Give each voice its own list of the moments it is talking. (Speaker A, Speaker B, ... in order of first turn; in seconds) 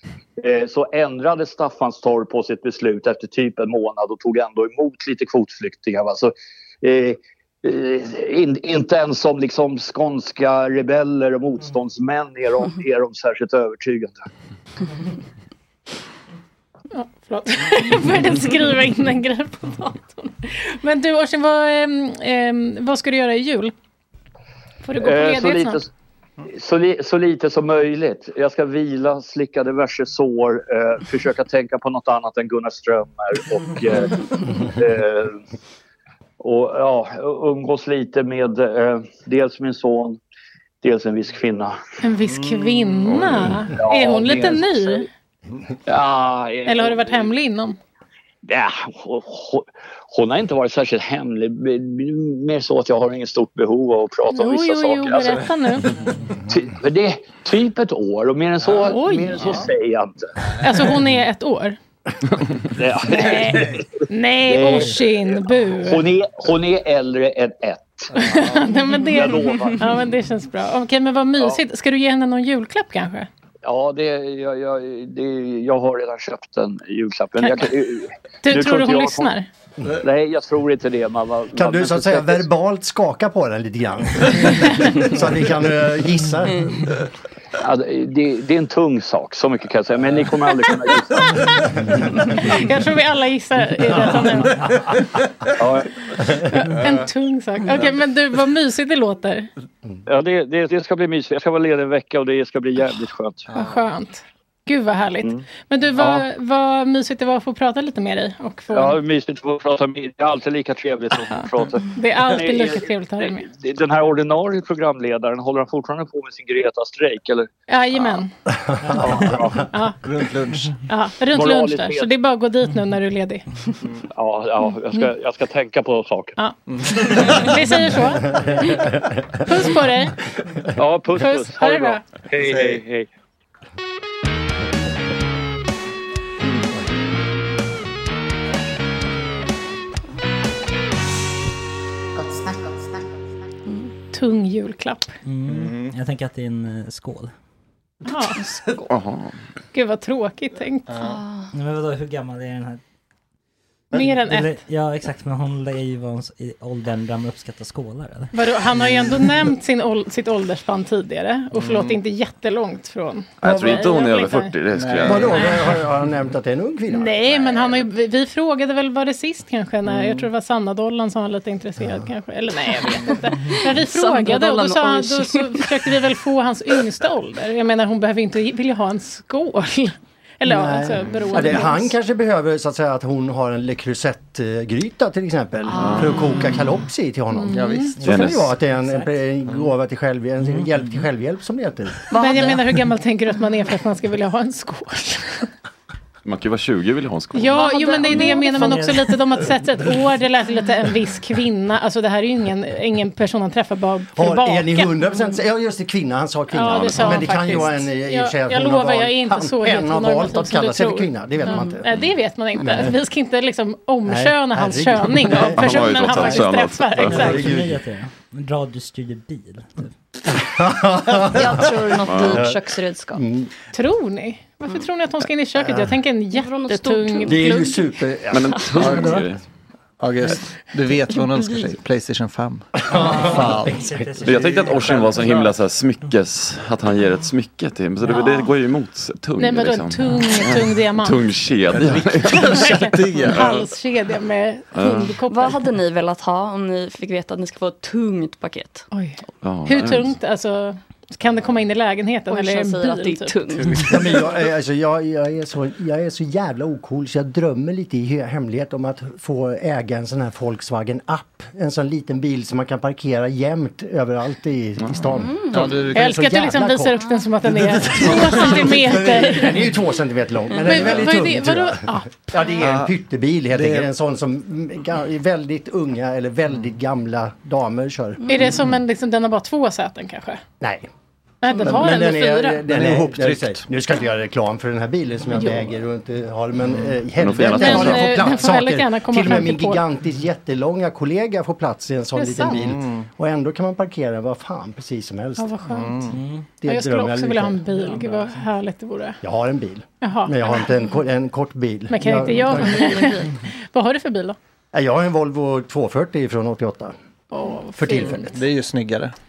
Speaker A: 0.4-14.2, 25.0-25.9, 26.4-35.4, 36.4-40.2, 40.8-41.8, 43.7-45.1, 45.9-47.3, 48.4-55.4, 56.5-60.3, 62.7-63.9, 64.5-68.3, 69.0-69.9, 73.6-79.3, 80.0-82.5, 87.6-91.7, 95.5-95.9, 100.0-103.5, 106.0-106.2, 108.7-118.2, 119.0-119.6, 121.3-122.1, 124.1-126.4, 130.7-133.1
Speaker B: 16.9-23.7, 24.8-25.8, 42.0-45.1, 46.6-47.8, 54.3-55.9, 58.8-59.6, 60.6-61.8, 63.0-66.0, 68.1-73.3, 77.4-77.7, 78.4-79.5, 84.5-85.0, 92.3-94.6, 96.5-99.5, 103.5-109.0, 111.2-113.5, 117.7-118.3, 119.7-120.0, 120.9-123.5, 126.4-128.5, 129.4-130.2, 131.2-132.0, 144.1-145.1, 148.1-148.4, 149.7-150.9, 153.9-154.5, 158.3-164.5, 165.3-165.6, 166.9-181.9, 187.3-187.9, 192.1-195.5, 197.3-204.9, 206.5-217.4, 223.7-227.8, 239.4-241.2, 242.3-245.6, 248.9-253.3, 265.9-269.6, 270.6-272.4, 278.3-280.4, 281.4-282.6, 287.5-289.8, 292.1-292.6, 295.4-296.0, 296.6-299.2, 300.0-300.4, 301.9-304.4, 307.3-308.3
Speaker C: 42.3-43.1, 68.2-68.7, 103.5-103.8, 120.0-120.8, 126.7-127.5, 132.4-132.8, 145.4-145.9, 150.9-151.2, 161.6-161.9, 164.7-165.6, 169.9-170.3, 187.5-188.4, 228.8-229.3, 230.0-235.6, 241.7-243.6, 265.5-266.1, 272.6-272.9, 273.5-273.9, 282.6-283.6, 292.5-293.0, 295.7-296.2, 308.2-309.1
Speaker D: 43.1-43.5, 148.9-149.3, 163.4-165.4, 185.8-186.2, 188.0-188.5, 196.2-197.7, 215.4-217.3, 222.1-222.4, 228.3-229.4, 234.2-243.6, 244.7-245.2, 249.4-250.1, 264.8-265.1, 287.2-288.3
Speaker E: 81.5-86.9, 128.3-129.4, 163.4-163.9, 165.0-167.3, 180.4-192.0, 204.1-212.0, 212.6-212.9, 214.1-216.4, 217.1-217.7, 220.4-222.6, 223.1-223.5, 225.6-225.9, 227.2-229.2, 232.9-233.8, 253.9-278.2, 280.6-280.9, 281.6-295.5, 296.6-297.6, 299.2-303.1, 304.7-306.9, 307.8-308.4
Speaker F: 118.8-119.1, 145.2-147.3, 151.5-152.8, 153.9-158.3, 190.4-191.0, 198.3-199.2, 217.1-219.9, 232.9-234.5, 296.1-296.4, 297.8-298.3
Speaker G: 143.7-143.9, 151.0-151.5, 173.7-175.8, 185.7-186.3, 192.1-192.6, 197.5-198.8, 221.1-223.2, 226.3-227.8, 231.1-231.8, 238.1-238.5, 245.3-248.9, 252.3-254.0, 265.1-265.7, 278.2-278.5, 302.7-303.1